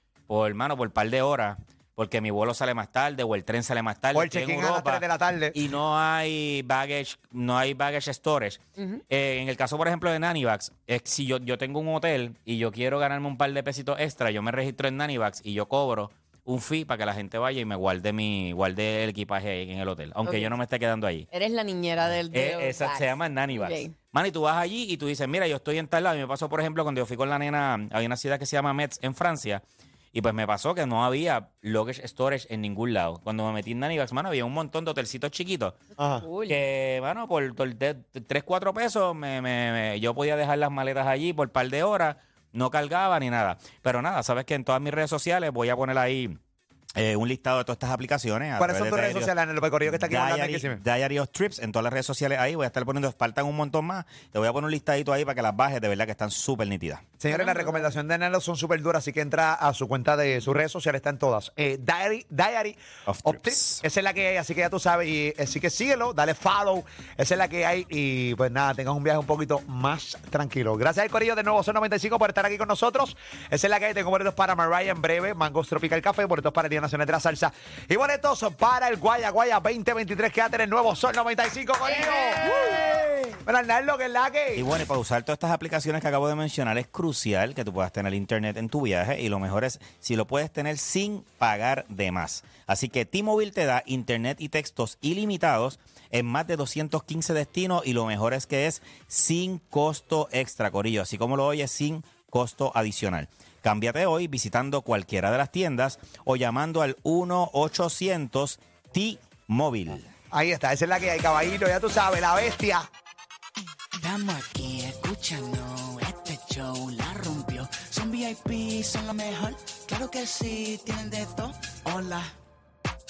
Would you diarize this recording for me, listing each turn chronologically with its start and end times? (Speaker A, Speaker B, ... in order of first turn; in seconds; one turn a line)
Speaker A: 0.3-21.3
Speaker B: 4.1-5.6
Speaker C: 20.2-20.5
Speaker C: 21.3-23.9
Speaker A: 22.1-35.8
Speaker B: 36.0-36.2
Speaker C: 36.2-36.6
Speaker A: 36.5-46.4
Speaker A: 47.0-49.3
Speaker B: 48.6-50.8
Speaker A: 49.9-57.1
Speaker B: 57.2-82.7
Speaker C: 57.3-57.9
Speaker A: 63.1-63.8
Speaker C: 81.8-83.1
Speaker B: 83.4-84.7
Speaker A: 84.5-110.1
Speaker B: 110.3-112.9
Speaker D: 114.0-122.3